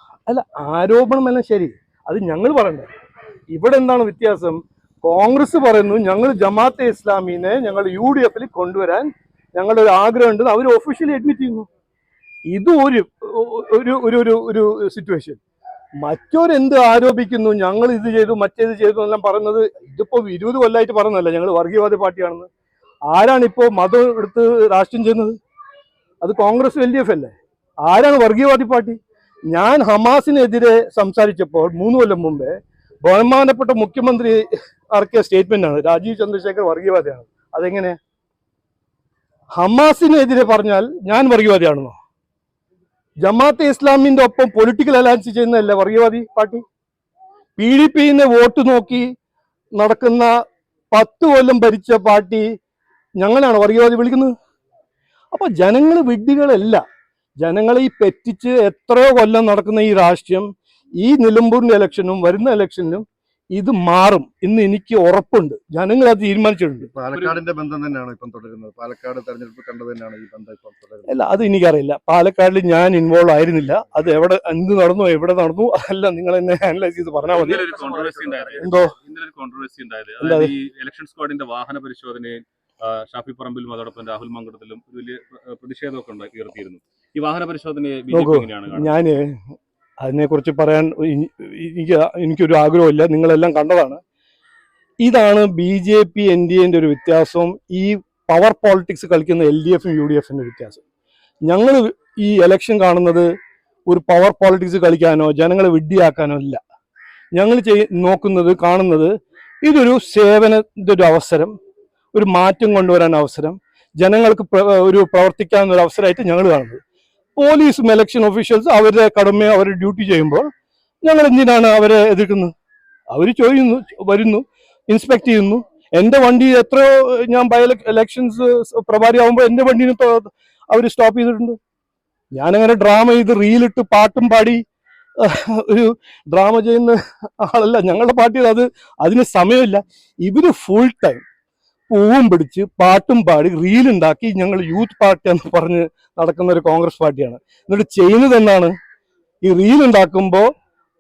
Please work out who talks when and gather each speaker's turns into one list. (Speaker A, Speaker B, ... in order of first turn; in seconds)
Speaker A: 0.3-2.9, 3.5-11.7, 12.5-15.4, 16.0-22.5, 23.1-25.4, 26.2-29.0, 29.5-38.0, 39.5-42.0, 43.2-46.6, 47.6-49.1, 49.8-50.3, 50.9-52.5, 53.2-54.3, 55.3-56.8, 57.4-60.5, 61.0-66.9, 71.1-77.8, 78.6-78.9, 80.2-80.5, 88.1-89.4, 90.0-94.0, 95.0-100.8, 101.5-103.3, 103.9-106.6, 107.3-111.5, 112.1-116.8, 117.4-120.5, 121.0-122.5, 123.1-131.6, 132.3-134.6, 135.2-141.2, 141.9-148.7, 149.4-150.5
Speaker B: 66.8-71.1, 77.7-78.7
Speaker C: 67.1-67.4, 77.2-89.0